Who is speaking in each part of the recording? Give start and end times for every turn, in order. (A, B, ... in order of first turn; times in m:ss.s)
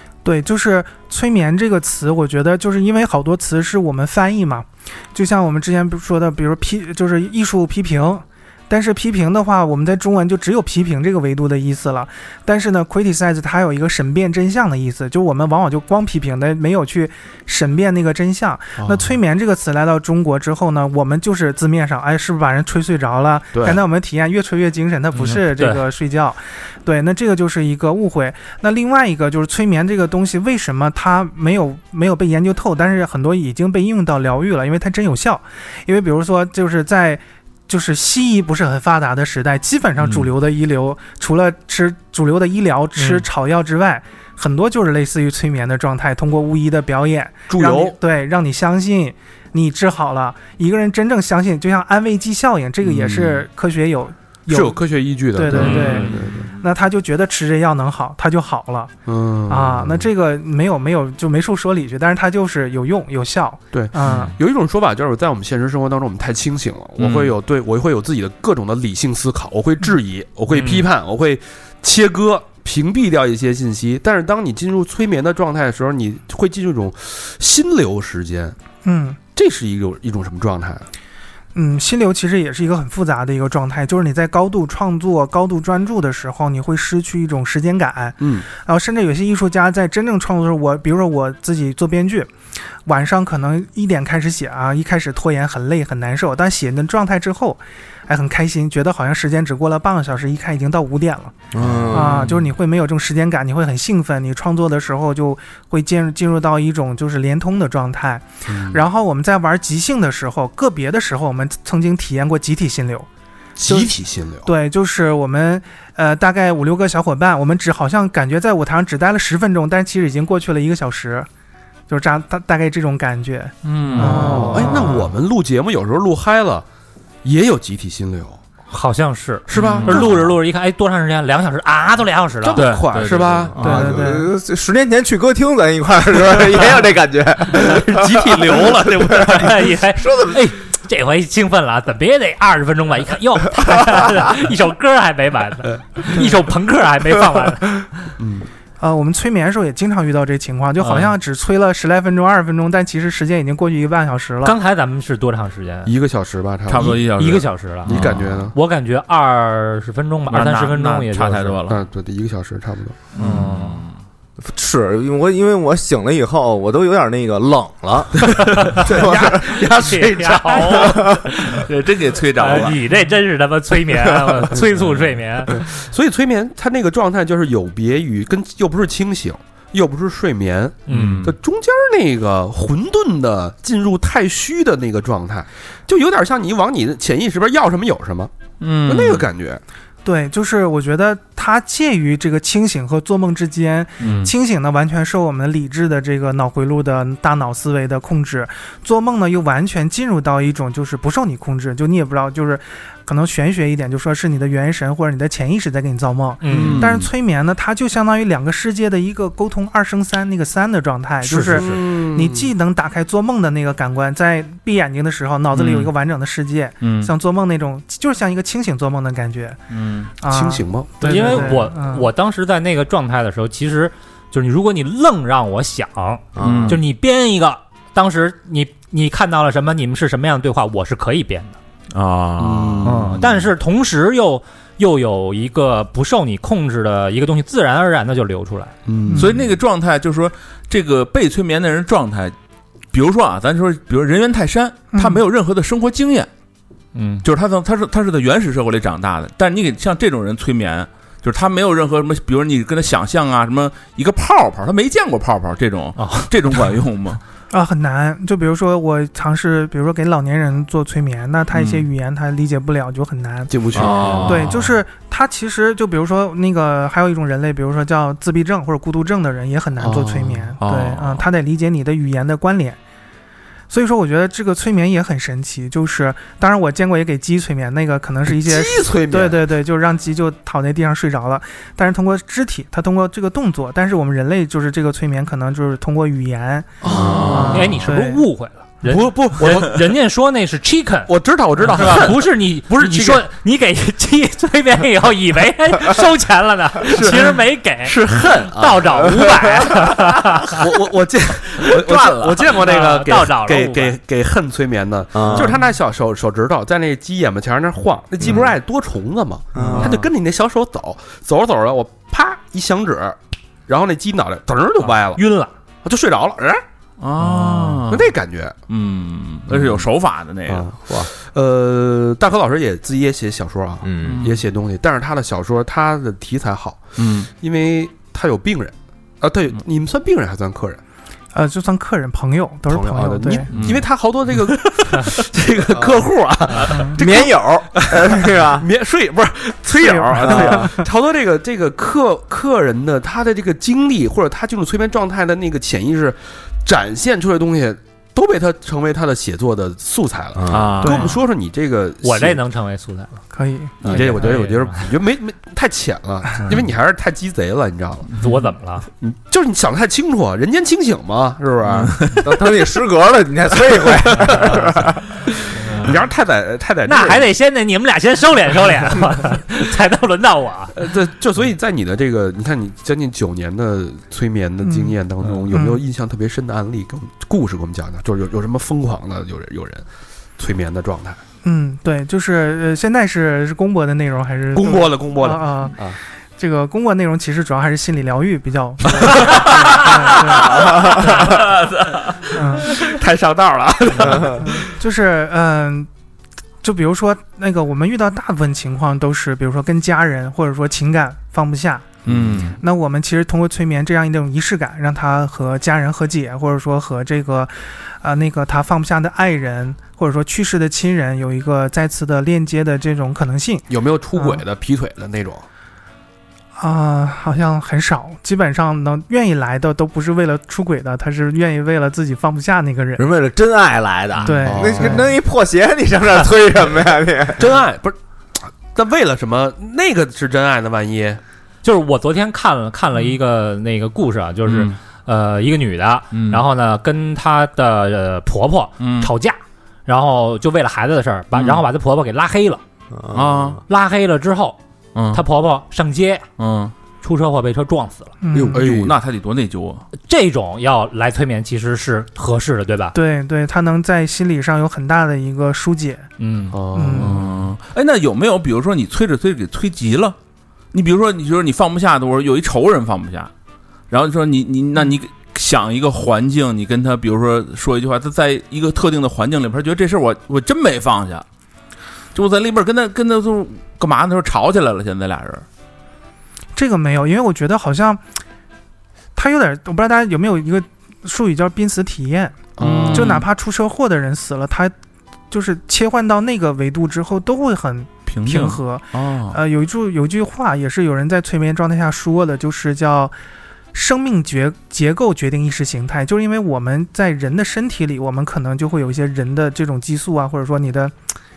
0:00.2-0:54.8 A
0:18.8-0:19.1 B
0:23.5-0:23.8 B
0:25.3-0:25.8 C
0:43.0-0:43.3 C
0:47.5-0:48.0 B
0:52.8-0:53.4 B
0:54.5-0:56.5 B
0:55.3-0:58.9 A
0:55.5-0:56.2 C
0:55.6-0:56.3 D
0:59.1-1:00.1 B
0:59.5-1:04.3 A
1:03.7-1:18.6 B
1:04.0-1:04.3 C
1:07.0-1:07.3 D
1:10.5-1:10.8 C
1:18.8-1:19.2 A
1:19.4-1:20.9 B
1:21.6-1:32.3 A
1:28.2-1:28.5 B
1:32.9-1:41.4 A
1:41.5-1:42.3 E
1:41.6-1:42.2 B
1:41.9-1:53.1 A
1:48.5-1:48.8 B
1:53.6-1:54.5 B
1:53.6-2:01.3 A
2:01.9-2:05.1 A
2:03.6-2:04.6 D
2:04.0-2:05.0 C
2:04.0-2:06.6 B
2:07.2-2:08.4 B
2:08.7-2:12.7 C
2:09.5-2:10.2 B
2:09.5-2:10.2 D
2:12.4-2:13.8 B
2:12.6-2:13.5 D
2:13.5-2:20.4 E
2:13.6-2:14.3 A
2:17.5-2:19.7 B
2:19.4-2:28.1 C
2:28.2-2:28.5 B
2:28.8-2:34.6 A
2:30.8-2:31.2 C
2:34.4-2:35.9 C
2:35.9-2:37.1 B
2:36.7-2:38.5 D
2:37.2-2:38.0 C
2:37.9-2:38.6 B
2:38.5-2:41.6 C
2:40.3-2:41.8 D
2:41.7-2:43.0 B
2:43.2-2:44.0 D
2:43.2-2:43.8 C
2:44.4-2:49.4 E
2:48.8-2:51.2 B
2:49.0-2:51.7 C
2:51.2-2:52.8 D
2:52.4-2:55.8 C
2:55.5-3:08.3 B
3:00.9-3:01.2 C
3:00.9-3:01.4 D
3:08.6-3:09.3 D
3:08.9-3:09.6 B
3:10.0-3:39.6 A
3:14.0-3:14.3 D
3:26.4-3:26.9 C
3:26.5-3:27.0 B
3:26.5-3:27.0 D
3:31.2-3:31.9 C
3:31.4-3:32.5 B
3:35.6-3:35.9 D
3:36.8-3:37.1 D
3:39.7-3:40.1 D
3:40.2-3:42.1 A
3:40.2-3:41.6 B
3:41.0-3:51.6 C
3:46.4-3:46.8 E
3:46.4-3:46.8 D
3:51.9-3:53.2 D
3:52.4-3:53.4 B
3:52.8-3:58.7 C
3:58.9-3:59.4 B
3:59.1-3:59.4 A
3:59.2-4:02.4 D
4:02.9-4:06.3 D
4:04.9-4:05.2 A
4:07.0-4:07.2 C
4:07.2-4:17.2 D
4:16.0-4:16.3 C
4:17.5-4:23.5 A
4:21.5-4:21.8 D
4:23.5-4:24.4 B
4:23.7-4:24.7 D
4:24.2-4:32.8 A
4:29.8-4:30.5 B
4:30.6-4:31.2 D
4:33.7-4:48.2 A
4:38.3-4:39.4 B
4:46.8-4:47.8 B
4:46.9-4:47.8 D
4:47.4-4:58.0 C
4:48.8-4:49.8 B
4:51.1-4:53.2 B
4:56.9-4:59.3 B
4:58.5-5:00.6 C
4:59.1-4:59.7 E
5:00.5-5:13.2 B
5:01.7-5:02.5 D
5:02.4-5:04.0 C
5:05.1-5:05.6 E
5:09.6-5:10.0 E
5:09.6-5:10.1 D
5:13.7-5:15.2 B
5:14.8-5:15.5 C
5:15.8-5:16.6 B
5:17.0-5:18.1 D
5:17.3-5:17.8 C
5:17.9-5:18.6 B
5:18.7-5:20.7 D
5:19.5-5:19.9 B
5:20.5-5:30.8 B
5:23.8-5:24.3 E
5:24.0-5:24.4 D
5:27.0-5:27.3 D
5:31.3-5:33.5 A
5:32.7-5:52.4 B
5:33.5-5:33.9 D
5:35.7-5:38.7 E
5:39.7-5:40.9 A
5:40.2-5:40.7 E
5:50.4-5:50.8 E
5:50.5-5:51.2 D
5:50.8-5:51.1 A
5:52.0-5:53.2 C
5:53.3-5:53.8 A
5:53.8-5:58.1 B
5:53.8-5:54.9 C
5:58.2-5:58.9 C
5:59.0-6:02.0 B
6:01.7-6:02.3 D
6:02.2-6:05.1 E
6:03.9-6:04.7 B
6:05.7-6:07.3 B
6:06.8-6:10.8 C
6:10.7-6:19.8 B
6:14.6-6:15.0 A
6:15.5-6:15.8 A
6:20.4-6:21.2 B
6:21.4-6:25.8 A
6:24.5-6:26.0 B
6:26.4-6:30.8 A
6:29.0-6:29.8 B
6:29.3-6:32.1 D
6:30.3-6:31.4 B
6:32.3-6:32.7 A
6:32.5-6:34.7 B
6:34.4-6:35.9 A
6:36.6-6:42.0 A
6:42.1-6:42.6 D
6:42.1-6:42.4 E
6:42.6-6:54.4 A
6:53.7-6:55.4 B
6:56.6-7:03.0 A
7:03.0-7:07.6 E
7:04.2-7:05.1 A
7:04.5-7:05.1 B
7:07.4-7:11.2 B
7:11.6-7:22.6 C
7:14.4-7:14.8 D
7:16.1-7:16.4 D
7:18.8-7:19.1 D
7:21.3-7:21.6 D
7:22.9-7:23.6 E
7:23.1-7:23.6 D
7:23.7-7:24.6 C
7:25.0-7:25.2 D
7:25.1-7:26.3 C
7:26.4-7:26.7 D
7:27.0-7:28.2 C
7:28.2-7:28.6 A
7:28.3-7:28.9 E
7:28.5-7:29.0 B
7:28.6-7:29.9 D
7:30.0-7:33.0 C
7:32.9-7:36.1 A
7:36.2-7:36.6 C
7:36.5-7:37.3 B
7:36.7-7:37.2 A
7:37.0-7:40.2 D
7:40.7-7:43.3 D
7:43.9-7:51.2 D
7:52.1-7:55.4 D
7:56.6-7:58.0 A
7:59.2-8:04.7 A
8:02.6-8:03.2 B
8:02.6-8:03.3 D
8:05.3-8:13.1 A
8:08.1-8:09.4 D
8:13.7-8:20.9 A